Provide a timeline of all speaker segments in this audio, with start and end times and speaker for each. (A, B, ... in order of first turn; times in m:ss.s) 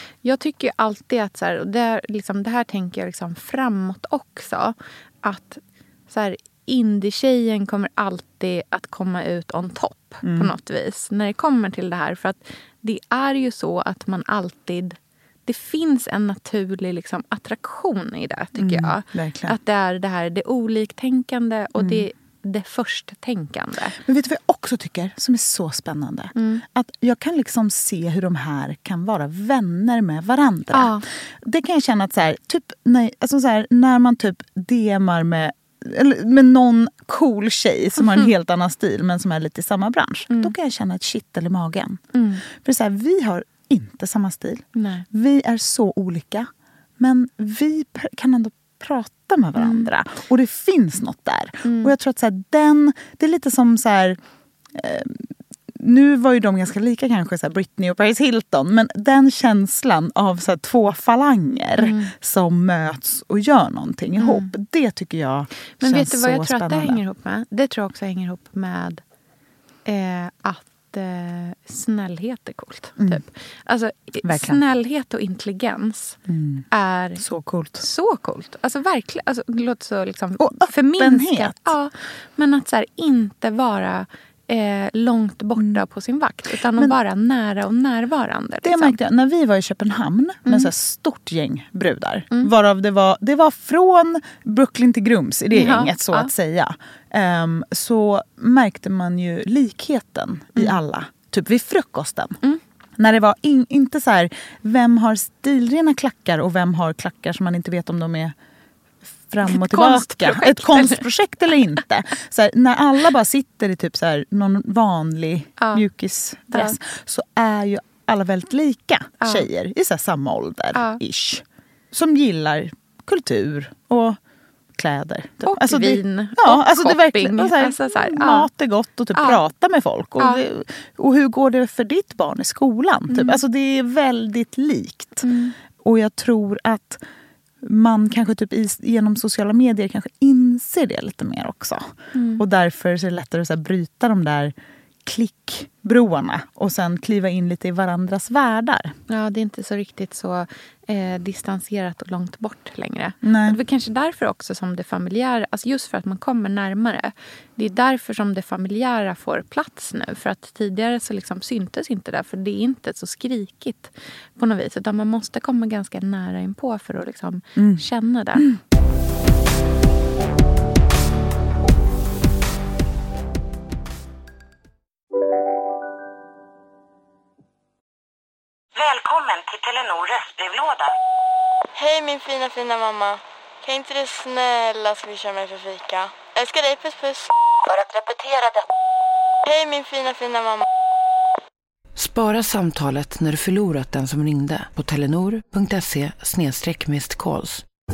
0:00.2-0:24.0 A
0:10.2-0:10.5 B
0:18.6-0:19.6 B
0:21.8-0:22.0 B
0:24.0-0:54.2 B
0:26.4-0:26.6 A
0:30.7-0:31.0 A
0:42.1-0:42.4 A
0:44.7-0:45.0 A
0:49.6-0:49.9 A
0:51.6-0:51.9 A
0:54.7-1:07.0 B
1:01.8-1:02.1 A
1:04.2-1:04.5 A
1:05.8-1:09.0 A
1:09.8-1:16.2 A
1:13.0-1:13.2 B
1:14.2-1:14.6 B
1:16.3-1:16.6 B
1:16.7-1:17.2 A
1:17.2-1:17.8 B
1:17.8-1:29.0 A
1:20.4-1:21.7 B
1:25.6-1:25.8 B
1:28.6-1:42.4 B
1:35.5-1:36.3 A
1:43.0-1:48.3 B
1:49.3-2:04.2 B
1:49.4-1:51.0 A
1:55.6-1:55.8 A
1:56.5-1:56.8 A
1:59.2-1:59.5 A
2:00.7-2:01.0 A
2:04.7-2:15.3 B
2:05.4-2:08.5 A
2:09.1-2:09.4 A
2:13.1-2:13.4 A
2:15.2-2:15.5 A
2:15.8-2:17.0 B
2:17.6-2:24.5 B
2:22.1-2:22.4 A
2:25.0-2:28.9 B
2:29.1-2:48.5 A
2:33.2-2:33.6 B
2:47.6-2:48.6 B
2:58.7-3:01.0 C
3:01.8-3:07.3 D
3:07.7-3:08.6 C
3:09.4-3:10.6 D
3:12.0-3:17.6 E